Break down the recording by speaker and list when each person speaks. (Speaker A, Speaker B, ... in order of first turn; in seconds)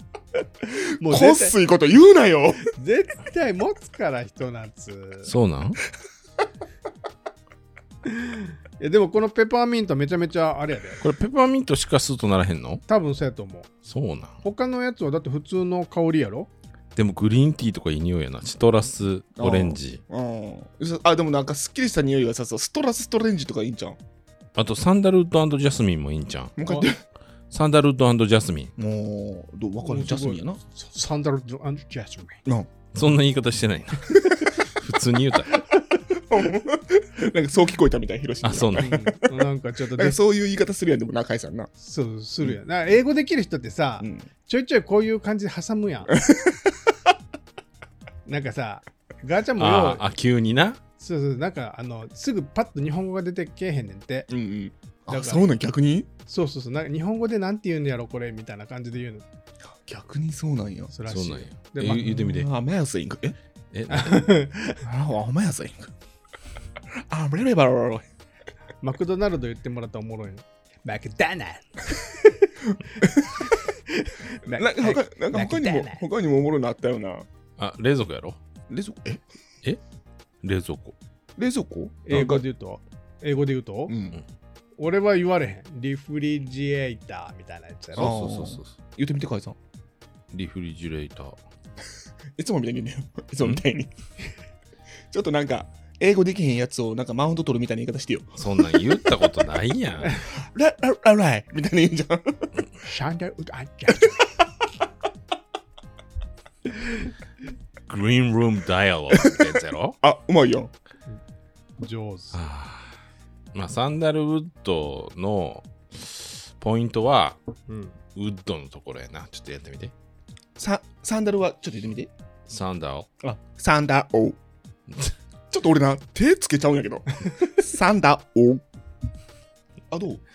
Speaker A: 0.6-1.6, 2.7-5.3, 8.1-11.0, 12.9-13.7, 14.4-16.5, 29.8-32.4, 38.7-40.2, 41.8-46.2, 48.2-50.0, 51.0-54.3, 55.1-55.5, 56.3-59.2, 60.9-62.2, 63.9-64.8, 68.8-76.0, 82.0-83.9, 84.8-88.1, 102.8-104.3, 111.8-112.3, 117.7-118.0
Speaker B: 1.0-2.7, 19.4-24.0, 26.6-27.0, 28.8-30.6, 32.4-32.7, 34.1-34.5, 36.1-39.4, 39.9-41.7, 46.1-46.8, 54.3-56.1, 59.6-60.9, 61.9-63.4, 64.8-65.9, 66.9-68.1, 73.0-73.4, 74.5-77.2, 78.7-79.2, 81.4-82.4, 83.9-84.2, 88.0-89.6, 92.3-93.9, 95.1-98.8, 100.3-102.5, 110.0-110.7, 120.6-122.1, 123.2-124.4, 125.5-128.6, 129.9-130.2
Speaker C: 5.2-5.8, 11.0-12.8, 13.8-14.3, 16.9-20.0, 24.6-26.6, 27.5-28.7, 32.9-35.6, 38.4-38.9, 49.5-50.8, 61.1-62.5, 63.7-64.3, 77.6-78.4, 80.4-81.0, 87.9-88.7, 90.3-91.4, 98.3-100.3, 107.9-110.0, 112.3-113.0, 113.5-117.4, 118.1-119.9, 122.5-123.1